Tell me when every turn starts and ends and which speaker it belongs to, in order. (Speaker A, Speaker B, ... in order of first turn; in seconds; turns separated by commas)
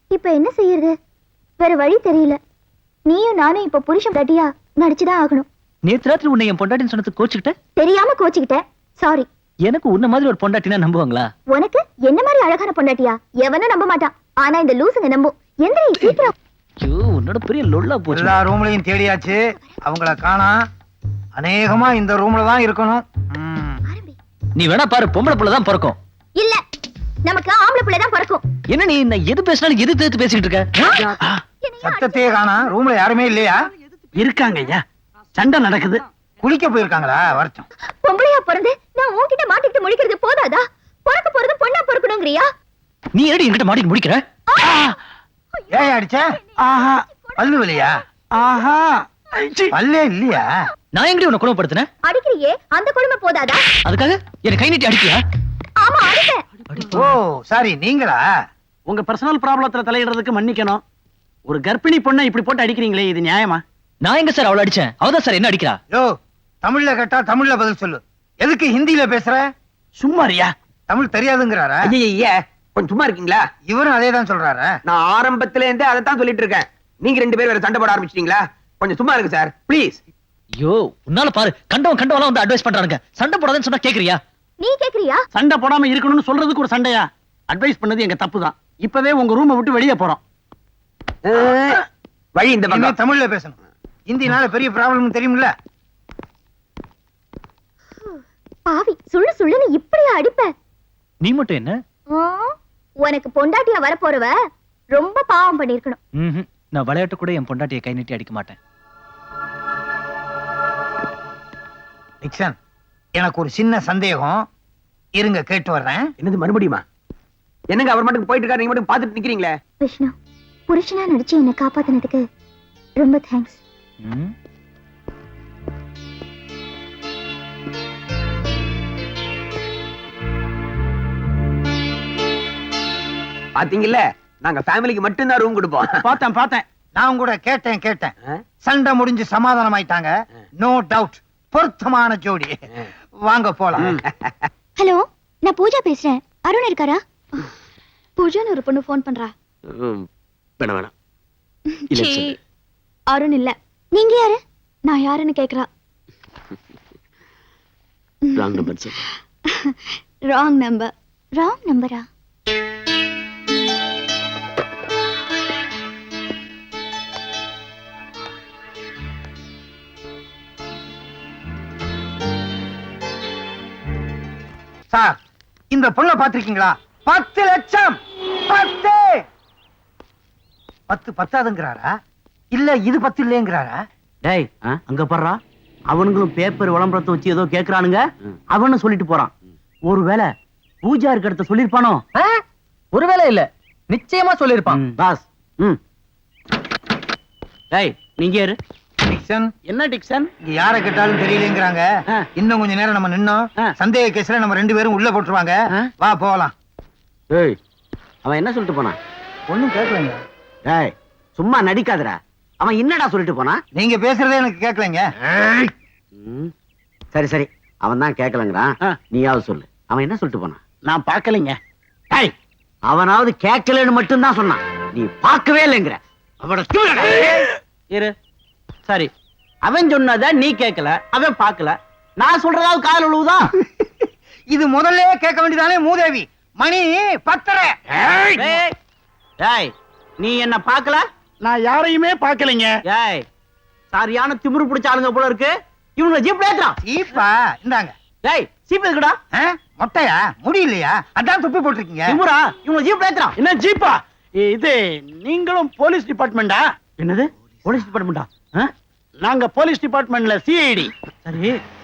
Speaker A: 0.1-0.9, Speaker A: 1.6-2.4, Speaker A: 3.1-5.5, Speaker B: 5.9-7.5, Speaker A: 7.8-9.3, Speaker B: 9.7-11.3, Speaker A: 11.5-16.3, Speaker B: 16.8-18.4, Speaker C: 18.1-20.6, Speaker C: 21.4-23.8, Speaker A: 23.9-24.2, Speaker B: 24.6-26.0, Speaker A: 26.4-26.6, Speaker A: 27.2-28.4, Speaker B: 28.7-31.1, Speaker A: 30.9-32.3, Speaker C: 31.8-33.6, Speaker D: 34.2-34.8, Speaker D: 35.4-36.0, Speaker C: 36.4-37.7, Speaker A: 38.0-42.5, Speaker B: 43.1-44.2, Speaker A: 44.5-44.9, Speaker A: 45.6-45.9, Speaker C: 45.7-46.2, Speaker D: 46.6-47.0, Speaker A: 47.1-47.4, Speaker C: 47.4-48.0, Speaker D: 48.3-49.7, Speaker C: 49.7-50.5, Speaker B: 50.9-51.9, Speaker A: 52.0-53.6, Speaker B: 53.9-55.2, Speaker A: 55.8-56.4, Speaker B: 56.7-57.1, Speaker C: 56.9-58.2, Speaker D: 58.9-60.8, Speaker D: 61.5-63.6, Speaker B: 64.0-65.8, Speaker C: 66.6-69.5, Speaker D: 70.0-70.5, Speaker C: 70.9-71.9, Speaker E: 71.9-73.4, Speaker C: 73.7-74.8, Speaker E: 74.9-80.0, Speaker B: 80.6-84.2, Speaker A: 84.6-85.2, Speaker D: 85.3-90.2, Speaker E: 91.3-91.8, Speaker E: 92.4-92.9, Speaker C: 92.7-93.6, Speaker C: 94.1-95.5, Speaker A: 98.0-100.5, Speaker B: 101.2-101.8, Speaker A: 102.1-104.3, Speaker A: 105.0-106.0, Speaker B: 106.2-108.6, Speaker C: 112.2-112.6, Speaker C: 113.2-114.4, Speaker C: 115.2-116.1, Speaker E: 116.2-116.8, Speaker E: 117.7-119.5, Speaker A: 119.8-120.2, Speaker A: 120.7-122.2, Speaker A: 123.0-123.6, Speaker B: 124.0-124.3, Speaker E: 133.6-135.9, Speaker D: 136.0-136.6, Speaker C: 137.0-138.1, Speaker C: 138.6-142.6, Speaker C: 143.2-144.0, Speaker A: 144.8-147.4, Speaker A: 148.2-149.3, Speaker A: 151.8-152.3, Speaker A: 153.1-155.7, Speaker A: 158.3-159.0, Speaker A: 159.6-162.1, Speaker C: 174.9-175.2, Speaker C: 175.7-178.0, Speaker C: 178.5-179.2, Speaker C: 180.9-181.9, Speaker C: 182.5-183.8, Speaker F: 184.2-189.3, Speaker F: 189.9-192.0, Speaker B: 192.9-195.0, Speaker F: 194.7-195.8, Speaker F: 197.7-198.6, Speaker C: 199.0-199.5, Speaker D: 199.7-200.3, Speaker C: 200.4-206.5, Speaker F: 207.3-207.6, Speaker F: 208.2-209.0, Speaker C: 209.5-210.2, Speaker F: 210.7-213.6, Speaker C: 213.8-215.1, Speaker F: 216.2-216.5, Speaker F: 217.1-220.6, Speaker D: 220.8-221.6, Speaker F: 222.8-228.2, Speaker F: 228.9-229.1, Speaker F: 229.6-233.5, Speaker C: 234.5-237.7, Speaker F: 238.4-238.8, Speaker F: 239.4-241.1, Speaker D: 241.4-242.7, Speaker F: 242.9-243.3, Speaker F: 243.9-246.8, Speaker C: 246.8-247.9, Speaker F: 248.2-249.2, Speaker C: 249.3-252.2, Speaker F: 252.1-253.4, Speaker D: 253.4-257.3, Speaker F: 257.7-258.3, Speaker D: 259.2-261.5